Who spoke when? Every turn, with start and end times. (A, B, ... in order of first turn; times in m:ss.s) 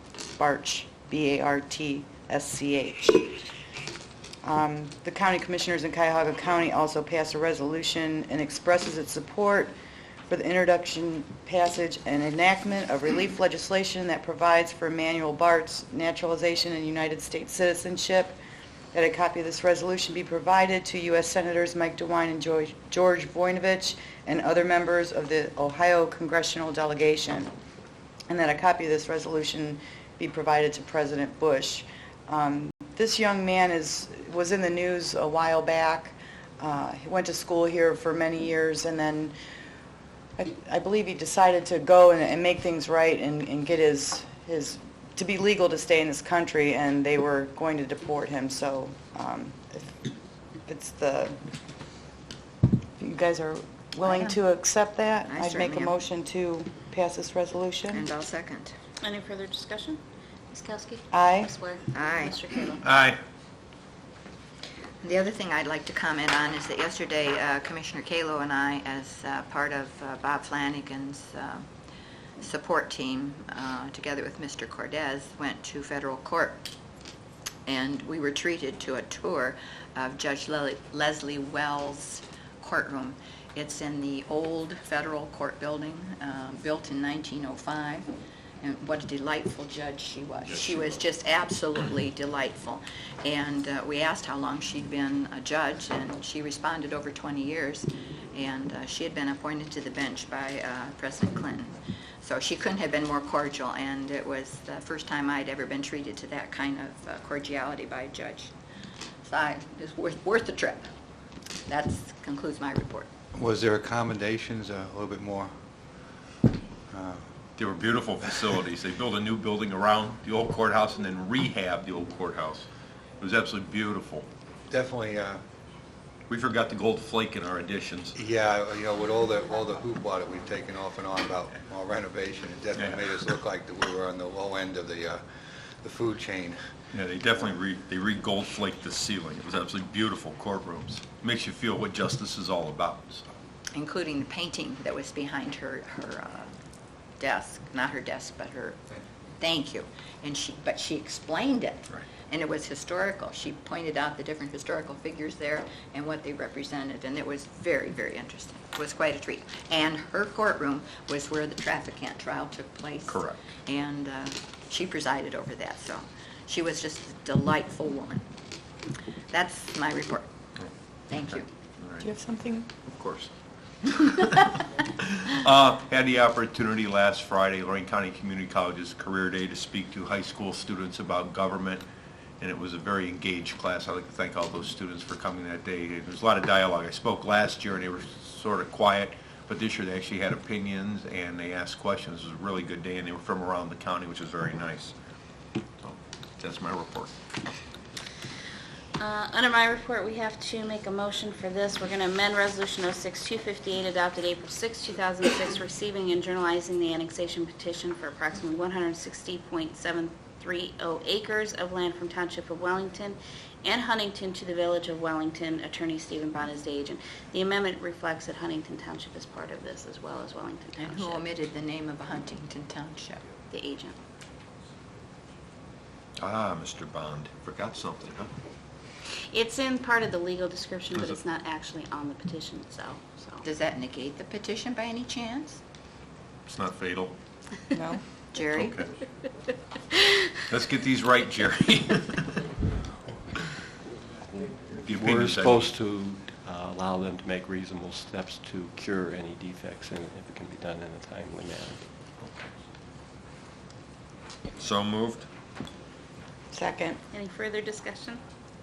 0:00.3-0:03.4 A
0:04.4-0:09.7 A
0:10.3-0:18.4 A
0:18.9-0:27.5 A
0:28.3-0:39.3 A
0:40.4-0:50.0 A
0:50.6-0:51.4 A
0:53.0-0:58.1 A
0:54.0-0:54.4 B
0:55.3-0:55.9 B
0:57.9-0:58.7 B
0:59.0-1:00.0 C
1:00.5-1:02.8 C
1:01.1-1:01.5 A
1:01.9-1:02.4 B
1:02.8-1:03.2 D
1:05.0-1:11.7 B
1:12.4-1:16.6 B
1:17.7-1:28.1 B
1:28.6-1:48.5 B
1:49.2-1:50.9 B
1:51.7-1:53.1 B
1:53.3-1:55.5 E
1:56.9-1:57.2 E
1:57.6-2:02.6 D
2:03.2-2:04.3 D
2:04.7-2:05.4 E
2:06.3-2:08.1 D
2:08.1-2:15.2 E
2:12.8-2:13.3 D
2:15.8-2:16.6 E
2:16.9-2:23.3 D
2:23.7-2:26.5 B
2:27.2-2:28.8 B
2:29.4-2:48.2 B
2:43.1-2:43.4 D
2:49.3-2:50.3 B
2:51.1-2:51.5 B
2:51.8-2:52.1 D
2:52.0-2:52.7 A
2:52.8-2:53.3 D
2:54.0-3:01.8 D
3:02.4-3:15.0 D
3:15.8-3:17.1 D
3:19.0-3:41.2 C
3:40.8-3:43.2 B
3:43.5-3:44.0 C
3:46.2-3:48.4 D
3:49.3-3:53.4 C
3:50.9-3:51.2 D
3:53.4-3:55.6 B
3:56.4-3:57.2 D
3:57.7-3:58.0 A
3:58.3-3:58.8 B
3:58.5-3:58.9 D
4:00.5-4:02.3 D
4:04.8-4:05.7 D
4:05.0-4:11.8 F
4:12.2-4:12.5 D
4:14.6-4:15.3 D
4:16.5-4:17.0 A
4:17.1-4:18.2 C